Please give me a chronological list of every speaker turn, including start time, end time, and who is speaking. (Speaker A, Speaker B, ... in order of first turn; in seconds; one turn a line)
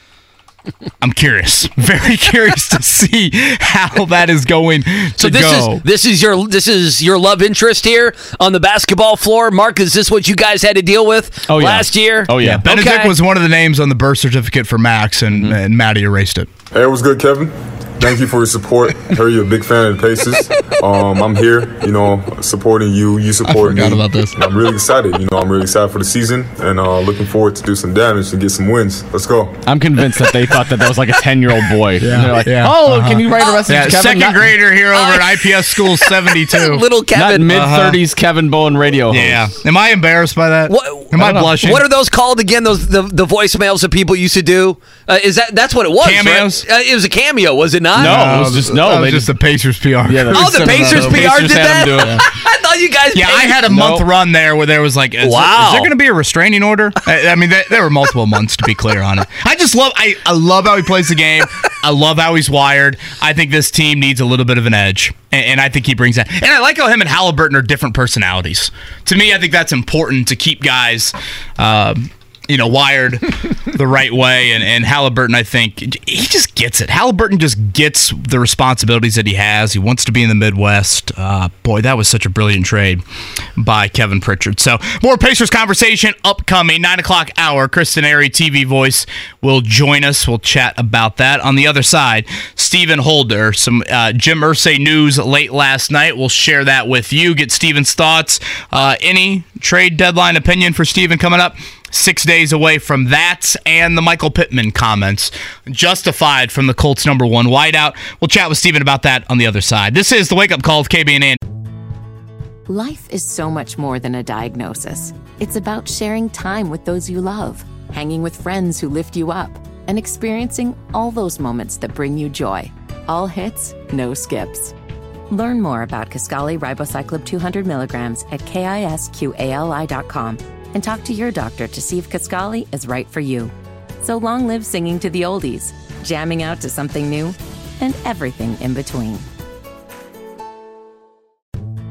Speaker A: 1.0-5.8
Speaker B: 5.2-13.1
Speaker C: 11.5-12.7
Speaker A: 12.4-16.5
Speaker D: 16.7-29.6
Speaker A: 23.5-24.4
Speaker C: 29.7-34.5
Speaker A: 32.0-36.9
Speaker B: 33.4-33.7
Speaker B: 34.9-37.7
Speaker C: 37.1-39.5
Speaker A: 37.5-38.0
Speaker A: 39.1-41.8
Speaker B: 40.7-48.4
Speaker C: 41.2-41.6
Speaker A: 46.0-46.6
Speaker C: 48.0-49.3
Speaker A: 48.0-52.2
Speaker C: 50.0-52.3
Speaker B: 50.3-53.6
Speaker A: 53.1-83.0
Speaker C: 53.6-54.0
Speaker B: 55.2-55.9
Speaker A: 83.6-111.4
Speaker E: 112.7-124.7
Speaker E: 125.3-139.3